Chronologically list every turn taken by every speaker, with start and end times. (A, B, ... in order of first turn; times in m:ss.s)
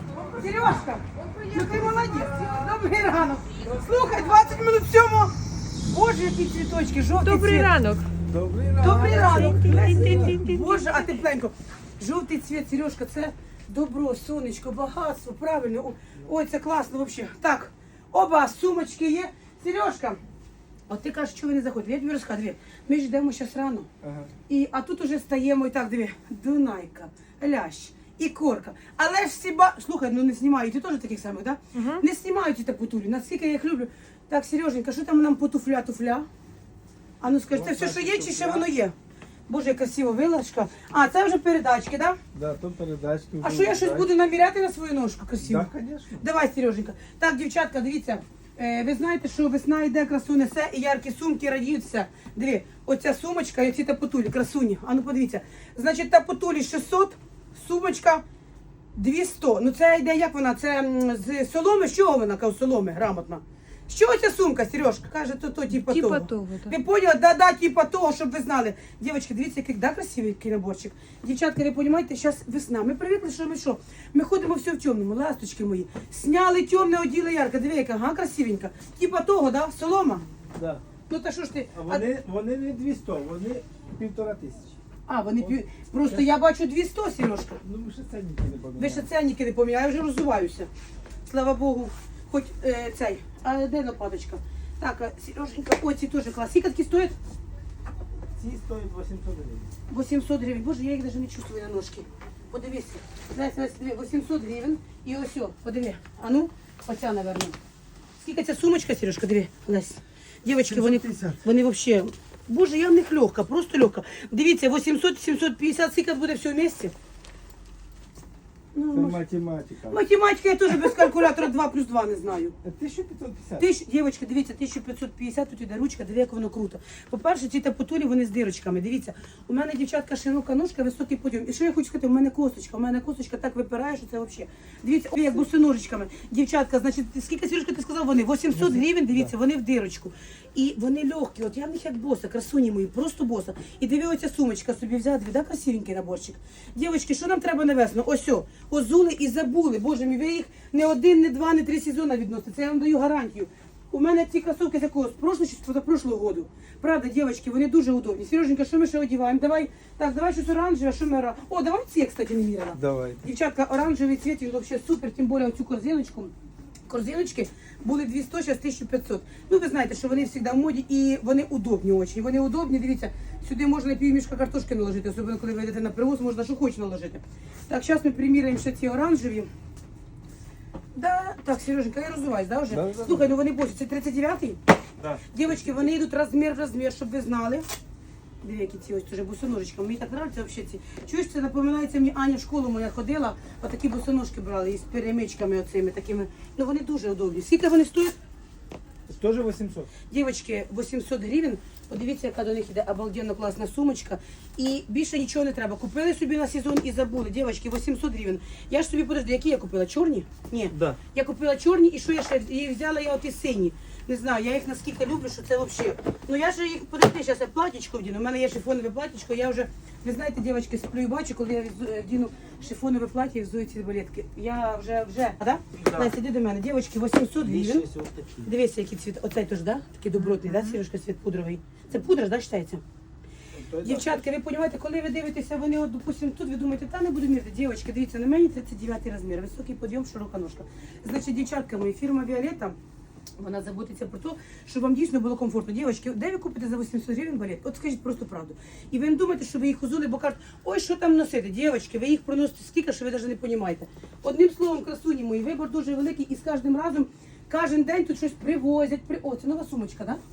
0:00.4-0:07.7 A
0:07.2-0:08.1 B
0:08.3-0:10.4 C
0:08.8-0:20.2 A
0:08.8-0:11.2 B
0:20.9-0:23.9 A
0:24.0-0:24.3 C
0:24.5-0:36.2 A
0:31.7-0:32.0 B
0:37.2-0:38.9 A
0:37.5-0:38.7 C
0:39.5-0:42.2 A
0:42.3-0:44.1 C
0:43.4-0:58.2 A
0:45.4-0:46.2 C
0:59.0-1:20.2 A
1:05.7-1:06.7 B
1:20.5-1:20.8 C
1:21.1-1:22.1 A
1:21.7-1:24.7 C
1:25.1-1:27.6 A
1:27.6-1:29.1 C
1:28.8-1:30.7 A
1:31.3-1:37.1 A
1:38.4-1:39.7 C
1:39.9-1:47.6 A
1:48.2-1:56.9 A
1:50.7-1:51.4 C
1:58.7-1:59.2 A
1:58.9-2:00.0 C
1:59.9-2:02.5 A
2:00.7-2:01.2 C
2:02.6-2:03.7 C
2:03.6-2:46.3 A
2:18.5-2:19.3 C
2:42.7-2:43.2 C
2:46.9-2:59.5 A
3:00.9-3:04.6 A
3:02.7-3:03.3 C
3:05.0-3:05.9 C
3:05.3-3:07.6 A
3:08.4-3:18.2 A
3:19.1-3:19.9 C
3:20.1-3:47.9 A
3:45.8-3:46.1 C
3:47.4-3:48.5 C
3:48.4-3:52.8 A
3:53.5-3:54.2 C
3:53.8-4:02.8 A
4:03.4-4:20.2 A